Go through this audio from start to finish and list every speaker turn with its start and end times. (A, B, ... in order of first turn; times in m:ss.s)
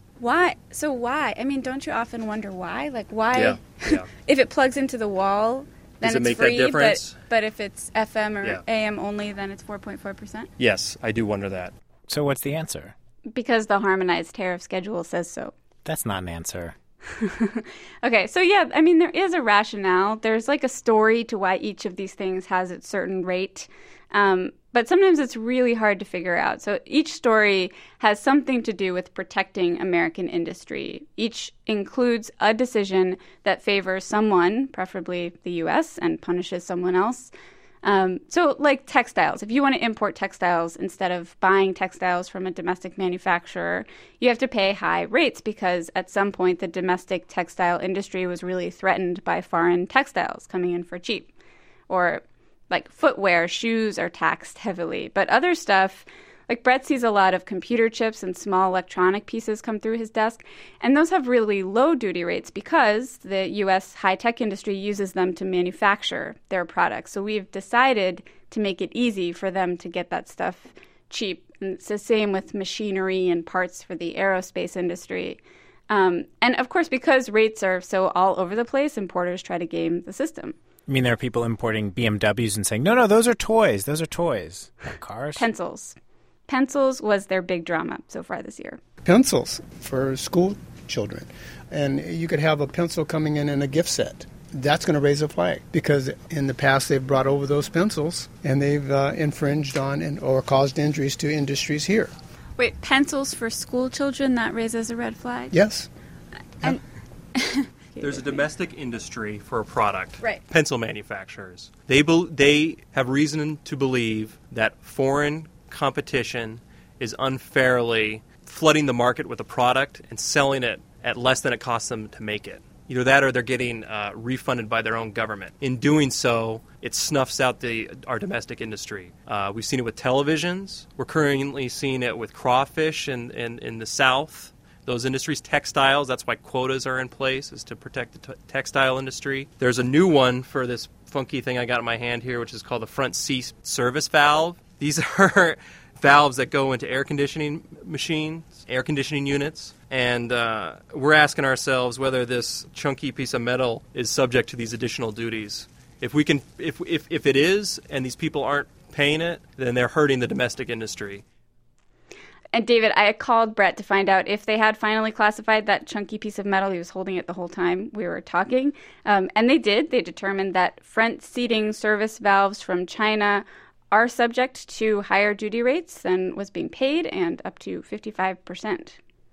0:00.2-0:10.5 A
0:03.3-0:04.1 B
0:06.0-0:07.2 B
0:10.6-0:11.7 B
0:12.1-0:12.9 C
0:13.3-0:15.5 A
0:15.8-0:16.8 C
0:17.1-0:37.3 A
0:37.8-0:51.3 A
0:51.9-1:20.6 A
1:20.9-1:25.5 C
1:25.4-1:26.0 A
1:26.5-1:28.8 A
1:29.0-1:42.1 D
1:42.6-1:45.6 A
1:45.5-1:45.9 D
1:47.4-1:48.4 A
1:48.0-2:41.2 B
2:42.5-2:59.0 A